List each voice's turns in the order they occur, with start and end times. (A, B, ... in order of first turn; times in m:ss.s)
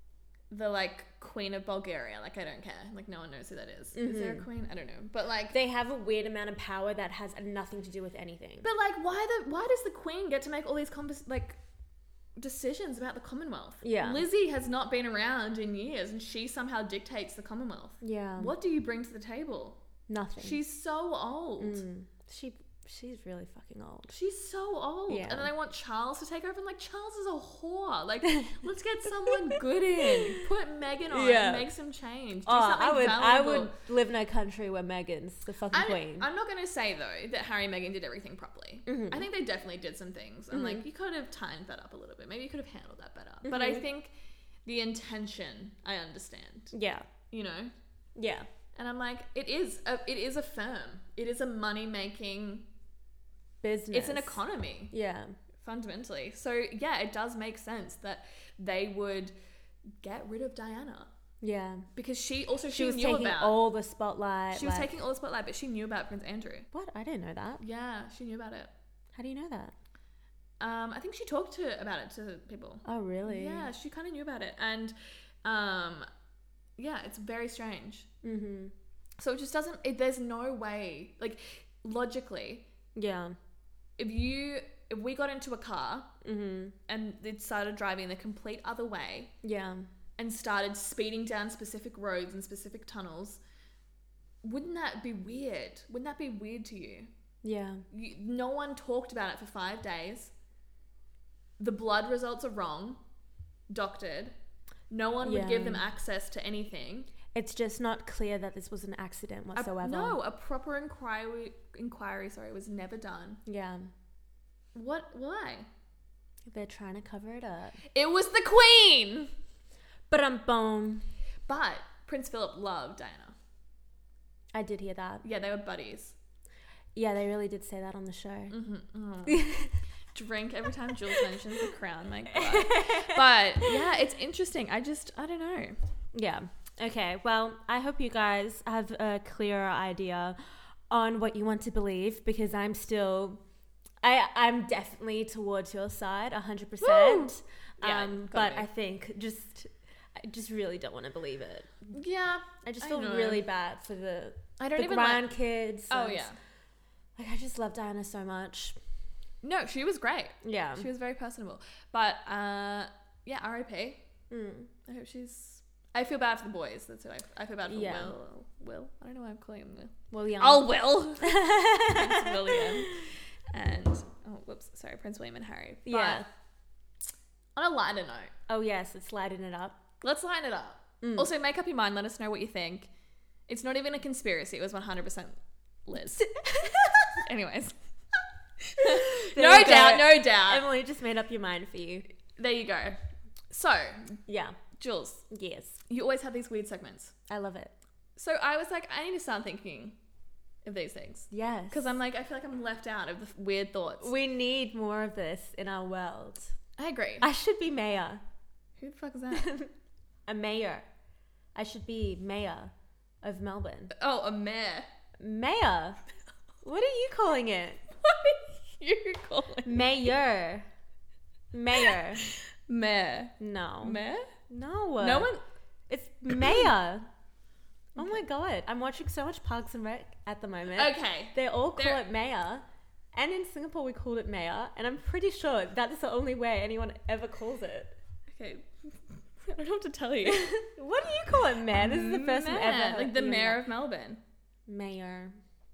0:00.5-0:05.6 A
0:03.9-0:04.4 B
0:05.5-0:08.7 B
0:08.6-0:11.6 A
0:12.4-0:19.8 A
0:13.8-0:14.2 B
0:18.0-0:18.5 B
0:20.1-0:20.6 B
0:20.4-0:21.8 A
0:21.6-0:24.1 B
0:24.1-0:33.8 A
0:25.1-0:25.5 B
0:31.1-0:31.7 B
0:32.4-0:36.3 B
0:35.7-0:44.1 A
0:38.8-0:39.3 B
0:40.5-0:40.8 B
0:43.4-0:43.8 B
0:44.6-0:46.7 A
0:46.7-0:47.0 B
0:47.3-0:47.7 A
0:48.2-0:48.5 B
0:48.7-0:52.6 A
0:53.6-0:55.3 B
0:53.9-0:54.9 A
0:55.6-0:59.3 A
1:00.0-1:01.1 A
1:01.4-1:01.8 B
1:01.9-1:03.5 A
1:02.7-1:04.9 B
1:04.5-1:06.7 A
1:06.7-1:07.6 B
1:07.6-1:08.7 A
1:09.1-1:09.7 B
1:10.6-1:16.1 A
1:12.8-1:13.7 B
1:16.8-1:18.1 A
1:18.2-1:18.7 B
1:19.2-1:22.6 A
1:23.0-1:23.4 B
1:24.0-1:26.1 A
1:26.2-1:26.8 B
1:26.9-1:29.3 A
1:29.4-1:29.9 B
1:30.2-1:33.4 A
1:34.4-1:37.1 A
1:37.4-1:37.8 B
1:37.9-1:40.3 A
1:41.6-1:43.0 A
1:43.7-1:44.3 A
1:44.9-1:47.1 A
1:45.2-1:45.8 B
1:47.3-1:50.2 B
1:49.5-1:53.4 A
1:53.4-1:53.9 B
1:54.7-1:55.7 A
1:56.5-1:57.8 B
1:57.9-1:59.3 A
2:00.1-2:01.1 B
2:01.5-2:03.3 A
2:04.5-2:05.2 B
2:05.2-2:06.2 A
2:06.9-2:08.5 B
2:08.5-2:09.6 A
2:09.2-2:09.8 B
2:10.1-2:15.8 A
2:12.3-2:13.8 B
2:16.1-2:20.4 B
2:20.9-2:23.4 B
2:24.0-2:31.9 B
2:26.8-2:28.7 A
2:31.9-2:33.4 A
2:32.6-2:36.3 B
2:34.6-2:35.3 A
2:35.9-2:36.4 A
2:37.2-2:38.8 B
2:39.4-2:44.0 A
2:40.4-2:40.9 B
2:44.3-2:44.7 B
2:44.9-2:56.2 A
2:47.7-2:48.1 B
2:50.1-2:53.0 B
2:55.8-2:56.2 B
2:57.6-2:58.3 A
2:58.5-2:59.8 B
3:00.0-3:02.9 A
3:01.0-3:01.3 B
3:03.5-3:06.3 A
3:06.2-3:07.2 B
3:07.2-3:07.7 A
3:08.7-3:10.6 A
3:08.8-3:12.0 B
3:12.4-3:13.0 A
3:13.5-3:14.2 A
3:14.3-3:14.6 B
3:14.8-3:15.3 A
3:15.3-3:15.8 B
3:15.9-3:17.1 A
3:17.3-3:17.7 B
3:18.2-3:20.0 A
3:20.6-3:24.1 A
3:21.3-3:21.9 B
3:24.0-3:26.6 B
3:26.8-3:27.3 A
3:27.2-3:28.2 B
3:28.8-3:29.5 A
3:29.3-3:29.7 B
3:30.3-3:30.8 B
3:31.5-3:33.9 B
3:33.9-3:34.9 A
3:35.2-3:36.0 B
3:36.6-3:37.8 B
3:38.0-3:40.1 A
3:39.6-3:40.6 B
3:41.5-3:42.2 B
3:42.2-3:44.3 A
3:43.4-3:45.3 B
3:45.0-3:45.4 A
3:45.9-3:47.1 B
3:48.0-3:57.9 B
3:50.7-3:52.0 A
3:58.3-4:00.6 A
4:00.3-4:03.6 B
4:01.7-4:04.2 A
4:04.7-4:05.3 B